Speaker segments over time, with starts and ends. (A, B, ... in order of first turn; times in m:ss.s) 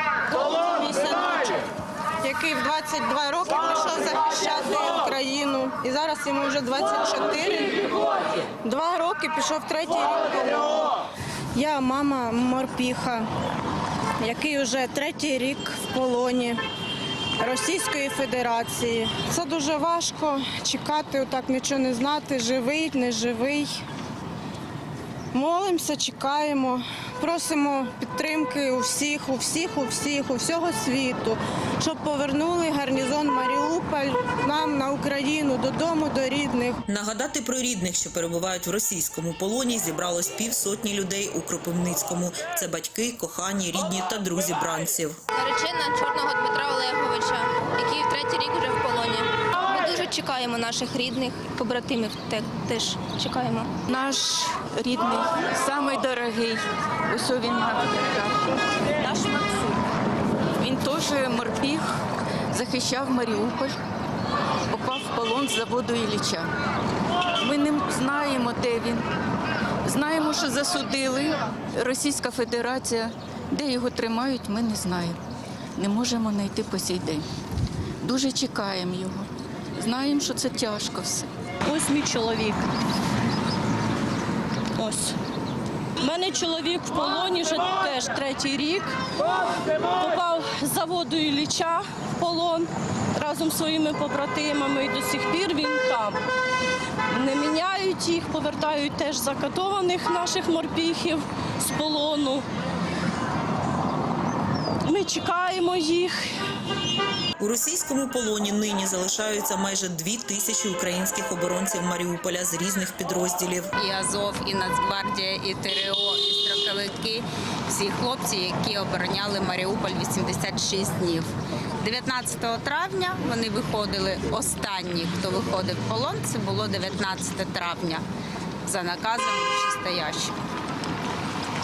0:00.3-0:01.6 A
0:02.2-0:08.0 A
0:08.6-0:10.9 A
0:11.6-0:13.3 A
0:14.2-0:16.6 A
0:17.4-0:23.8 A
0:25.3-0:36.8 A
0:36.9-0:45.2 B
0:45.4-0:47.0 C
0:48.0-0:51.4 C
0:53.9-0:58.5 D
0:59.0-0:59.8 D
1:00.6-1:02.0 D
1:02.5-1:03.7 D
1:04.7-1:06.5 D
1:07.4-1:09.1 D
1:09.8-1:15.2 D
1:15.8-1:17.2 D
1:18.0-1:21.3 D
1:21.6-1:22.6 E
1:24.8-1:25.2 E
1:26.0-1:28.9 E
1:29.8-1:36.2 E
1:37.1-1:42.4 E
1:44.9-1:46.3 E
1:47.4-1:53.7 B
1:53.8-2:08.0 F
2:08.7-2:10.3 F